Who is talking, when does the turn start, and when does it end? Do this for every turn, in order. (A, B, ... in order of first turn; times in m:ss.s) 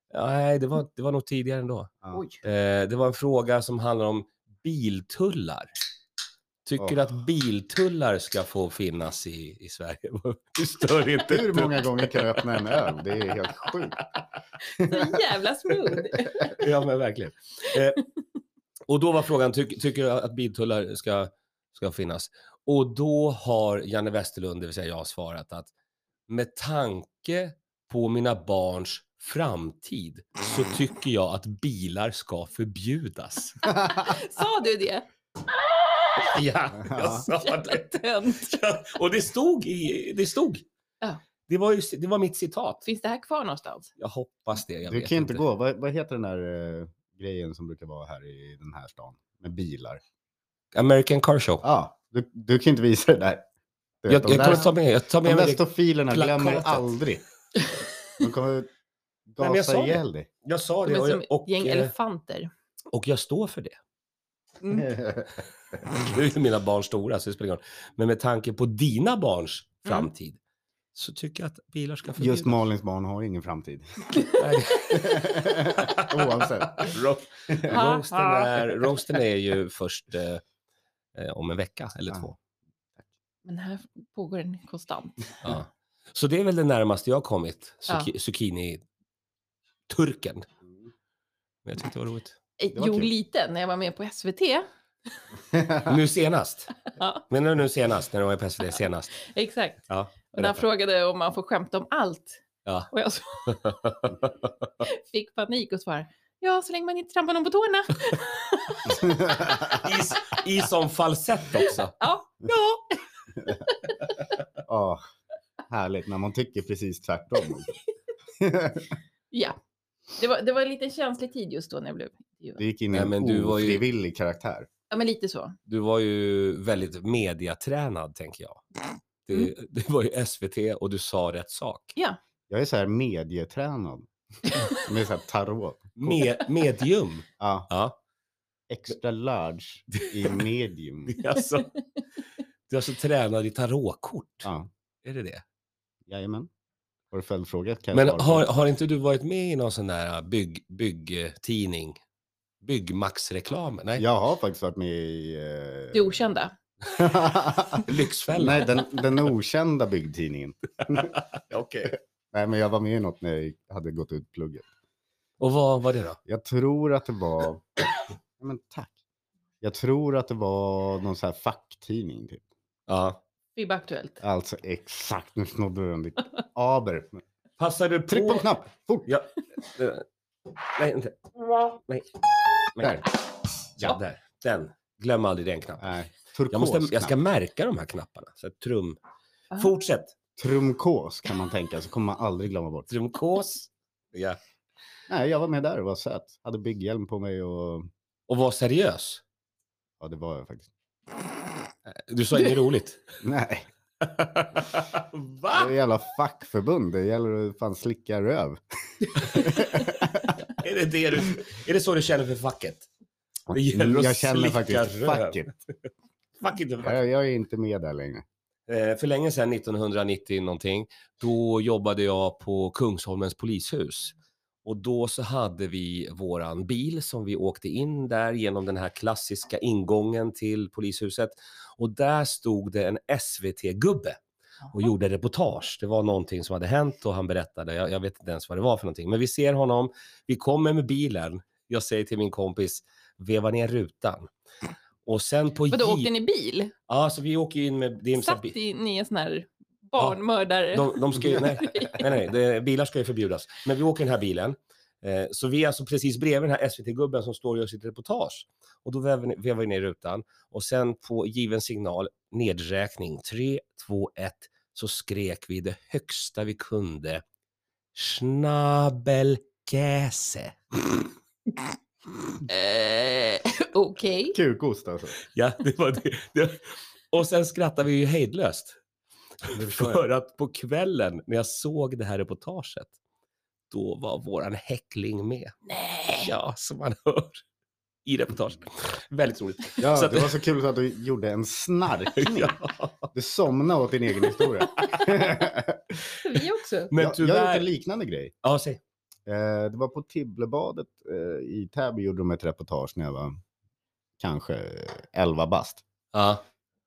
0:00.1-0:01.9 A
0:02.1-0:02.4 B
0:02.4-0:05.7 A
0:06.6-0:12.7 A
0:06.8-0:07.0 C
0:11.2-0:14.0 C
0:14.7-0:16.6 B
0:14.8-0:15.2 C
0:16.5-0:18.0 A
0:18.9-0:25.7 A
0:26.3-0:33.6 A
0:33.6-0:35.1 B
0:36.2-0:40.6 A
0:36.8-0:37.2 C
0:37.3-0:38.6 B
0:41.5-0:42.8 A
0:42.8-0:43.9 B
0:44.0-0:45.4 A
0:44.9-0:50.0 C
0:50.7-0:51.6 A
0:51.6-0:53.4 C
0:54.0-0:57.2 C
0:54.1-0:56.9 A
0:58.2-0:58.7 C
0:59.3-1:00.3 C
0:59.4-1:01.9 A
1:00.8-1:02.5 B
1:02.9-1:03.8 A
1:04.6-1:04.9 B
1:04.7-1:05.4 C
1:05.9-1:10.4 A
1:10.9-1:12.6 A
1:12.2-1:13.8 C
1:14.3-1:20.4 A
1:14.9-1:17.0 C
1:17.5-1:17.8 C
1:17.7-1:18.7 B
1:21.1-1:22.4 A
1:23.4-1:25.4 B
1:25.4-1:28.8 A
1:29.9-1:30.5 A
1:31.6-1:32.4 A
1:32.6-1:34.7 B
1:32.7-1:33.1 C
1:35.5-1:35.9 C
1:35.8-1:36.7 A
1:36.9-1:37.2 B
1:37.3-1:39.1 A
1:39.2-1:42.4 B
1:39.9-1:40.6 A
1:42.9-1:44.0 B
1:43.4-1:44.6 A
1:44.8-1:49.7 B
1:48.9-1:49.8 C
1:49.6-1:51.9 A
1:52.0-1:54.0 B
1:54.6-1:55.0 C
1:55.7-1:57.7 C
1:58.4-1:58.9 C
1:59.3-1:59.6 B
2:00.2-2:02.6 B
2:02.6-2:04.7 C
2:02.9-2:03.8 A
2:04.9-2:05.6 B
2:05.7-2:08.6 A
2:09.2-2:11.9 A
2:12.5-2:14.1 C
2:14.7-2:16.2 C
2:16.0-2:18.0 A
2:17.4-2:17.7 C
2:18.7-2:21.2 C
2:21.1-2:21.7 A
2:22.7-2:24.5 A
2:25.0-2:25.4 A
2:26.1-2:26.5 C
2:27.1-2:28.5 C
2:27.9-2:32.0 A
2:32.6-2:34.0 A
2:34.0-2:36.2 C
2:35.9-2:36.5 B
2:36.8-2:41.1 C
2:37.7-2:38.8 A
2:40.9-2:42.0 A
2:42.3-2:44.7 C
2:45.4-2:46.2 A
2:46.2-2:47.8 C
2:48.4-2:48.9 C
2:49.6-2:52.4 C
2:52.9-2:53.2 A
2:53.6-2:54.2 B
2:54.2-2:57.2 C
2:57.6-2:58.5 A
2:58.1-2:59.1 C
2:59.0-3:00.0 A
3:00.7-3:01.2 A
3:01.7-3:02.2 A
3:02.7-3:03.1 A
3:02.8-3:03.0 C
3:03.8-3:05.9 A
3:05.8-3:07.2 C
3:06.5-3:09.0 A
3:09.6-3:10.1 A
3:10.4-3:12.9 C
3:12.9-3:14.4 A
3:15.1-3:17.9 C
3:18.3-3:19.2 A
3:20.0-3:20.7 C
3:21.9-3:23.0 A
3:23.2-3:23.7 C
3:24.0-3:25.7 A
3:25.5-3:30.4 C
3:29.2-3:29.6 A
3:30.4-3:32.9 A
3:33.5-3:35.5 C
3:33.5-3:35.6 A
3:36.4-3:37.0 A
3:36.8-3:38.2 C
3:38.7-3:54.2 A
3:54.7-4:04.3 A
4:05.0-4:06.1 A
4:05.7-4:06.7 B
4:06.9-4:08.5 A
4:08.2-4:12.2 B
4:10.7-4:27.2 A
4:27.9-4:30.6 A
4:32.5-4:34.4 B
4:34.3-4:35.2 C
4:35.2-4:38.8 A
4:39.4-4:42.9 A
4:39.5-4:40.0 C
4:43.7-4:47.4 A
4:48.0-4:50.3 A
4:49.8-4:52.6 C
4:52.2-4:53.1 A
4:53.1-4:56.1 C
4:56.2-4:56.9 B
4:56.9-4:57.7 A
4:56.9-4:58.3 C
4:58.4-4:58.8 A
4:59.2-5:03.4 C
5:04.2-5:05.8 C
5:06.1-5:06.4 A